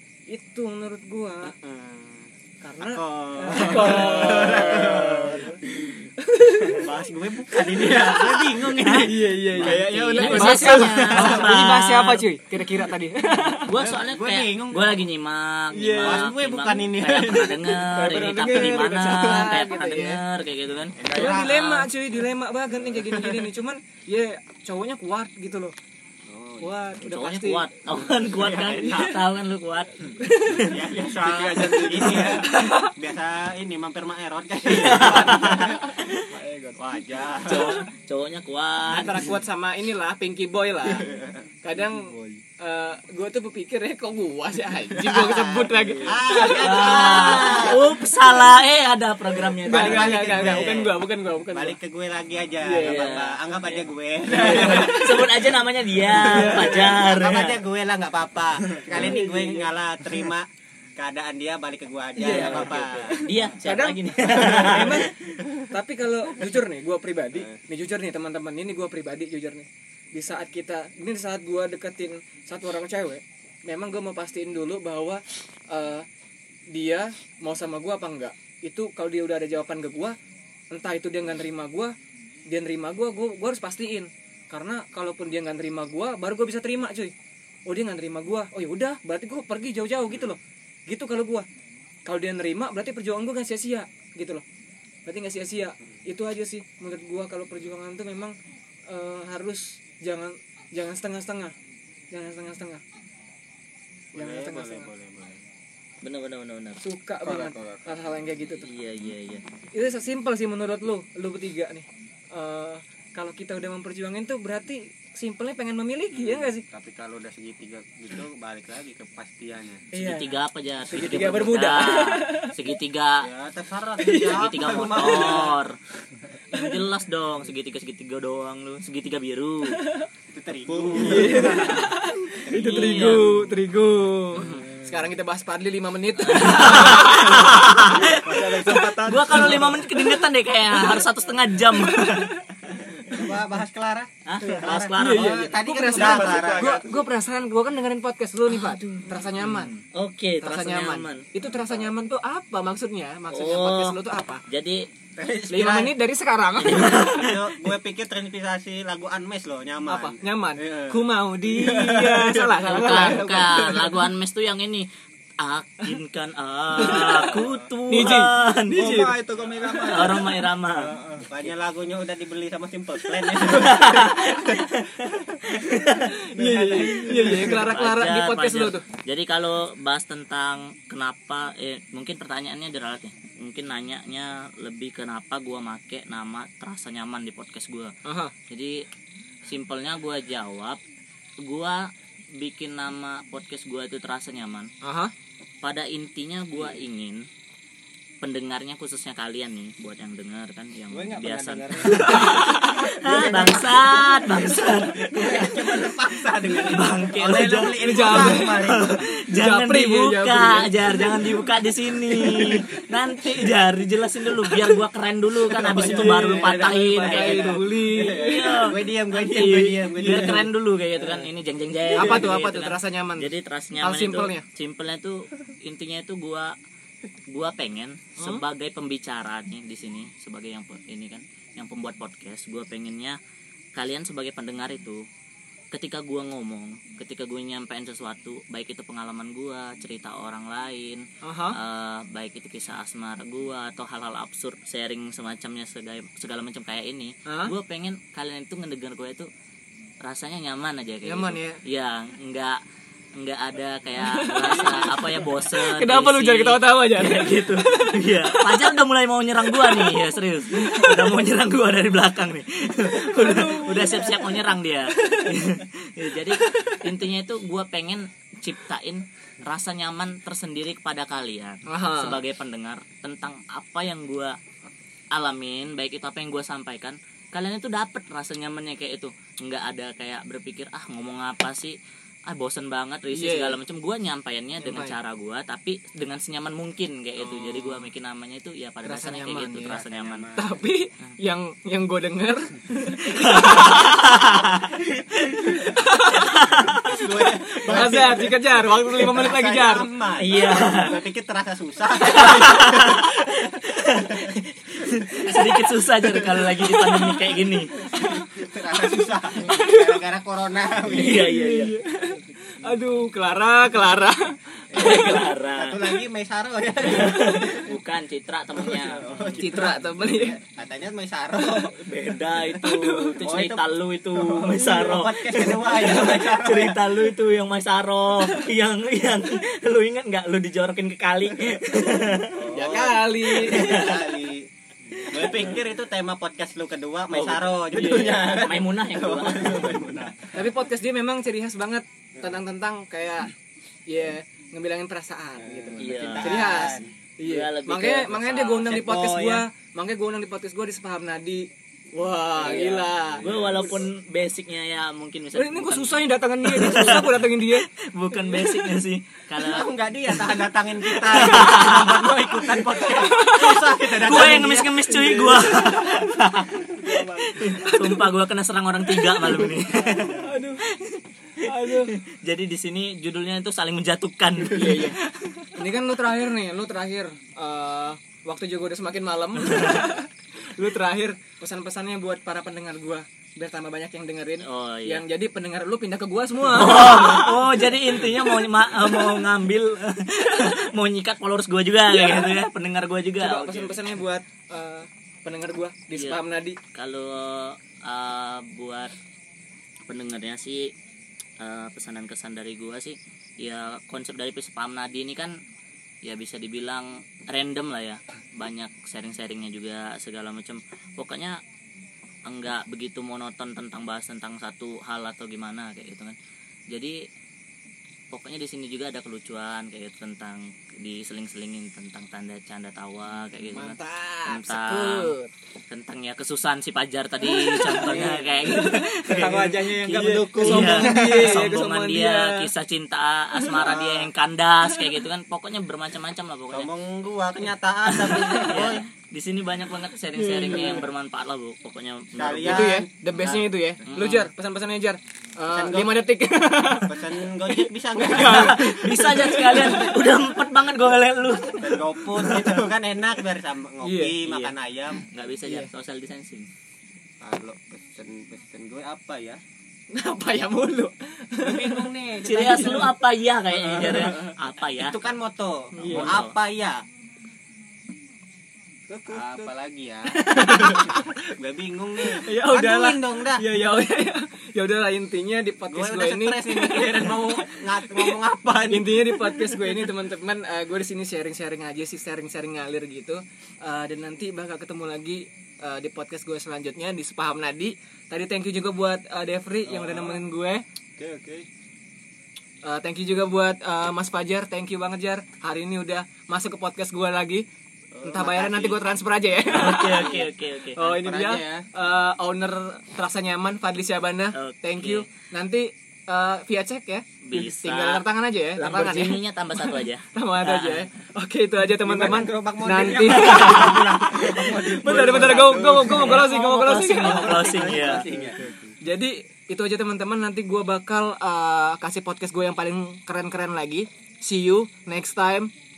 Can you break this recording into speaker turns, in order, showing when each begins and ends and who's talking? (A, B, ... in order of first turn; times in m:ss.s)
0:00.3-0:01.5 A
0:01.4-0:05.6 B
0:02.6-0:05.5 A
0:03.8-0:06.0 C
0:06.2-0:06.9 A
0:06.6-0:11.5 B
0:07.8-0:12.2 D
0:09.0-0:13.7 A
0:09.9-0:11.3 C
0:13.7-0:21.3 D
0:13.7-0:15.0 B
0:15.7-0:16.3 A
0:16.0-0:17.8 B
0:17.8-0:20.2 A
0:21.0-0:21.9 B
0:21.1-0:25.8 A
0:22.9-0:23.5 B
0:26.3-0:26.7 B
0:26.6-0:27.7 A
0:27.0-0:29.9 D
0:28.2-0:29.2 B
0:30.2-0:30.7 A
0:30.6-0:36.0 B
0:30.9-0:32.5 C
0:32.5-0:32.9 A
0:34.7-0:36.3 D
0:35.4-0:35.7 A
0:36.1-0:37.3 C
0:36.8-0:37.9 B
0:37.4-0:39.3 D
0:38.9-0:41.1 A
0:41.0-0:41.4 B
0:41.6-0:47.6 A
0:41.8-0:42.4 C
0:45.0-0:47.8 B
0:46.4-0:50.6 D
0:49.6-0:55.2 B
0:49.6-0:51.8 A
0:52.6-0:53.2 A
0:52.8-0:53.4 D
0:54.3-0:57.6 D
0:54.3-0:55.3 A
0:56.1-0:56.9 A
0:56.2-1:03.3 B
0:58.9-0:59.7 A
1:02.2-1:05.2 A
1:02.2-1:05.1 D
1:05.7-1:16.1 A
1:16.7-1:20.2 A
1:20.7-1:22.0 A
1:22.5-1:27.1 A
1:27.7-1:31.5 A
1:32.1-1:34.4 A
1:35.1-1:38.4 A
1:38.9-1:41.5 A
1:42.1-1:42.8 A
1:44.1-1:45.4 B
1:44.2-1:44.9 A
1:46.0-1:46.8 D
1:46.8-1:48.7 A
1:47.2-1:47.9 C
1:48.6-1:49.4 D
1:49.7-1:56.6 A
1:56.1-1:59.9 B
1:59.9-2:00.4 A
1:59.9-2:03.3 D
2:00.9-2:02.5 A
2:03.2-2:05.6 B
2:04.0-2:04.4 A
2:04.3-2:05.8 D
2:06.5-2:09.8 D
2:10.3-2:11.7 B
2:10.7-2:12.0 C
2:11.0-2:17.9 A
2:12.5-2:13.3 D
2:12.8-2:13.0 B
2:14.4-2:14.7 D
2:16.3-2:22.3 D
2:17.6-2:20.0 C
2:21.8-2:22.6 A
2:23.0-2:26.8 B
2:24.2-2:25.5 D
2:25.0-2:29.7 A
2:25.9-2:27.0 C
2:28.5-2:31.3 D
2:30.4-2:34.4 A
2:31.5-2:31.9 B
2:33.3-2:34.9 D
2:35.2-2:35.9 B
2:35.5-2:37.3 A
2:36.6-2:37.4 D
2:36.7-2:42.4 B
2:39.9-2:43.9 A
2:42.0-2:42.6 C
2:42.7-2:44.9 D
2:42.9-2:43.5 B
2:45.4-2:49.1 D
2:46.8-2:47.3 A
2:46.8-2:47.7 B
2:47.9-2:49.2 A
2:48.7-2:51.3 C
2:49.8-2:50.9 D
2:51.2-2:54.6 B
2:53.1-2:56.1 D
2:56.0-2:58.8 A
2:56.4-2:57.7 C
2:56.4-2:57.4 B
2:57.0-3:07.9 D
3:08.0-3:08.3 A
3:08.5-3:08.9 D
3:09.4-3:10.8 D
3:11.4-3:14.7 D
3:14.8-3:15.1 A
3:15.6-3:17.3 D
3:18.2-3:46.5 D
3:20.9-3:29.0 B
3:21.8-3:22.9 A
3:27.8-3:28.6 A
3:29.4-3:30.7 A
3:35.7-3:37.2 C
3:35.7-3:40.5 B
3:35.8-3:38.2 A
3:37.8-3:38.6 C
3:42.0-3:44.4 A
3:47.3-3:53.2 D
3:48.2-3:48.4 A
3:53.8-3:55.0 D
3:55.7-4:09.3 D
4:01.2-4:01.6 A
4:07.3-4:07.5 A
4:10.0-4:12.6 D
4:11.0-4:11.6 A
4:13.2-4:34.4 D
4:14.0-4:18.8 A
4:19.5-4:21.1 A
4:22.9-4:25.4 A
4:26.3-4:26.8 A
4:31.7-4:32.2 A
4:35.1-4:50.3 D
4:43.1-4:43.6 A
4:44.6-4:45.0 A
4:47.2-4:47.9 B
4:48.8-4:49.8 A
4:49.7-4:50.6 B
4:50.4-4:54.0 A
4:53.0-4:57.1 D
4:55.4-4:56.5 A
4:56.9-5:07.1 B
4:57.5-4:59.9 A
4:57.7-4:58.0 D
5:00.2-5:01.0 D
5:02.1-5:07.8 D
5:07.8-5:11.3 B
5:09.4-5:10.0 A
5:10.8-5:11.8 D
5:11.0-5:14.8 A
5:14.7-5:16.0 D
5:14.7-5:17.7 B
5:16.8-5:19.4 D
5:18.6-5:21.8 B
5:19.4-5:20.4 A
5:21.4-5:32.7 D
5:22.6-5:23.2 A
5:23.2-5:26.8 B
5:32.3-5:34.5 B
5:32.5-5:33.9 A
5:33.2-5:34.2 D
5:35.0-5:40.4 B
5:37.1-5:39.9 D
5:37.8-5:38.3 A
5:40.3-5:43.3 A
5:43.9-5:53.3 A
5:45.4-5:46.9 B
5:45.8-5:46.6 D
5:47.2-5:49.2 D
5:48.7-5:49.4 B
5:52.4-5:53.8 B
5:52.4-6:02.6 D
5:55.4-5:58.6 A
5:59.4-6:05.2 B
6:02.9-6:05.7 A
6:03.8-6:06.7 D
6:06.7-6:07.6 C
6:07.2-6:15.5 D
6:07.6-6:08.0 A
6:08.9-6:09.5 A
6:09.6-6:10.4 C
6:10.2-6:10.6 A
6:11.4-6:12.0 A
6:14.5-6:15.0 A
6:15.6-6:27.4 A
6:19.4-6:19.9 D
6:24.4-6:25.0 D
6:26.5-6:33.9 D
6:31.9-6:32.4 A
6:33.2-6:36.6 A
6:35.9-6:36.2 D
6:36.7-6:38.9 D
6:39.9-6:40.7 D
6:41.4-6:45.4 D
6:46.0-6:51.4 D
6:52.3-6:56.2 D
6:56.7-6:57.1 D
6:58.1-7:05.1 D
7:03.5-7:05.3 A
7:05.7-7:16.7 D
7:07.3-7:08.8 A
7:07.9-7:08.3 C
7:09.1-7:11.5 C
7:09.8-7:12.5 A
7:13.5-7:14.1 B
7:16.5-7:18.8 B
7:17.9-7:22.7 D
7:20.2-7:20.8 A
7:20.5-7:20.8 B
7:22.2-7:23.5 B
7:22.4-7:30.0 A
7:23.8-7:24.3 D
7:25.5-7:26.0 B
7:26.8-7:28.7 B
7:28.1-7:32.6 D
7:31.6-7:35.0 B
7:33.8-7:34.2 A
7:34.2-7:36.5 D
7:35.4-7:35.7 A
7:37.2-7:39.4 B
7:39.9-7:42.9 A
7:41.4-7:43.0 B
7:42.2-7:45.0 D
7:43.6-7:46.8 B
7:45.7-7:46.2 A
7:45.8-7:46.4 D
7:48.9-7:49.5 C
7:49.1-7:53.4 B
7:50.2-7:51.1 A
7:52.0-7:58.2 A
7:55.7-7:59.9 B
7:58.7-8:10.6 A
8:09.7-8:10.2 C
8:11.0-8:11.5 C
8:12.6-8:17.5 A
8:17.9-8:18.9 B
8:18.0-8:20.2 A
8:19.5-8:20.8 D
8:19.8-8:20.3 B
8:20.8-8:37.7 A
8:20.8-8:21.7 B
8:24.3-8:25.1 D
8:27.2-8:28.0 D
8:28.6-8:30.9 D
8:31.8-8:38.5 B
8:35.8-8:38.1 D
8:37.9-8:38.7 C
8:38.8-8:45.5 A